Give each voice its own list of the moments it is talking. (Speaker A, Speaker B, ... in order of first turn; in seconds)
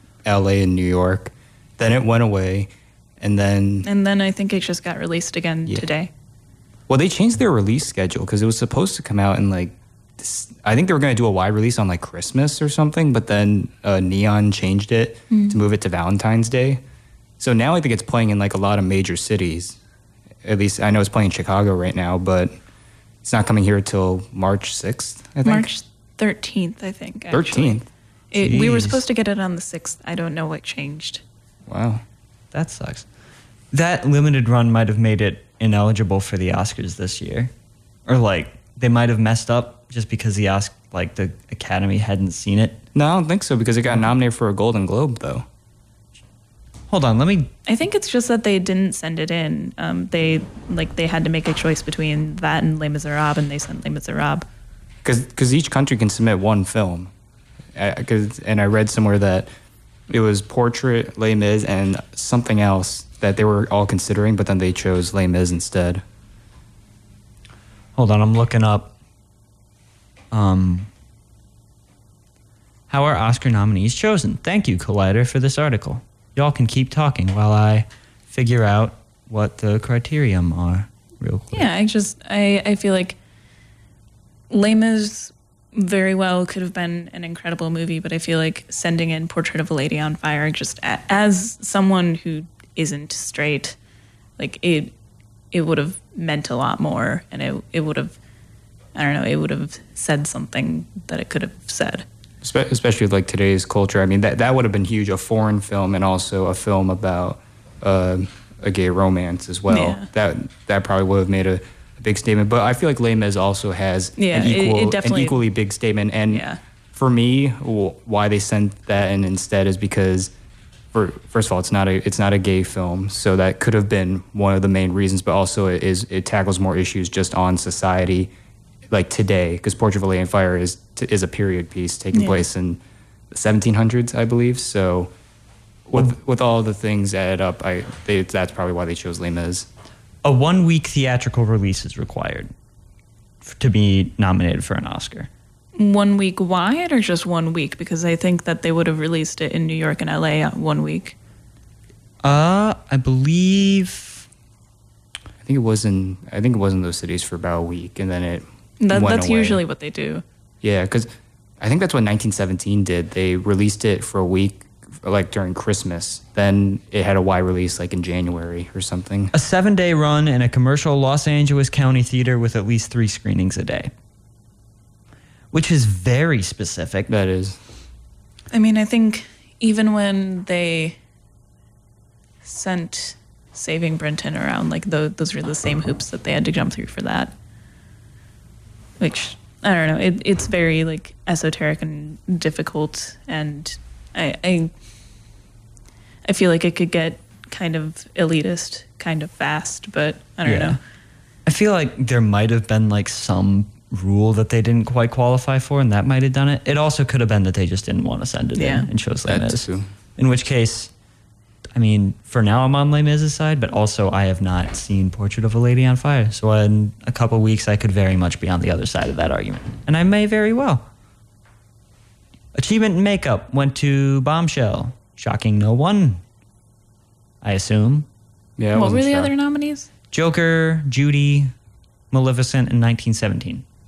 Speaker A: 0.2-3.9, 6.9-16.8, 17.4-19.8, 20.4-22.5, 23.2-25.7, 27.3-27.9, 31.7-32.0, 43.0-45.5, 55.0-57.1, 57.8-59.5, 60.1-66.0, 102.4-120.3, 120.9-128.3, 128.9-132.8, 133.3-135.1, 135.9-139.7, 155.4-159.6, 160.6-161.1, 161.6-169.3, 177.1-177.6, 209.3-209.9, 228.6-229.3
Speaker B: 3.8-6.1, 15.3-15.6, 25.4-31.2, 47.7-54.5, 81.5-83.2, 84.5-93.8, 94.4-94.9, 95.5-98.2, 99.0-102.0, 109.7-110.1, 114.2-115.4, 116.3-116.6, 132.1-132.4, 145.8-151.2, 158.8-160.2, 178.5-181.0, 182.4-187.3, 189.0-194.7, 196.3-200.8, 208.6-208.9, 228.7-229.9
Speaker C: 28.4-29.0, 32.5-33.1, 33.7-37.5, 38.1-42.8, 46.9-47.5, 68.0-68.9, 70.3-70.9, 72.9-81.7, 140.2-142.5, 143.4-145.3, 152.2-154.3, 169.3-173.9, 175.5-177.1, 200.4-200.8, 201.5-210.9, 211.8-220.9, 222.5-226.2, 227.4-228.1, 230.1-231.5, 232.1-233.7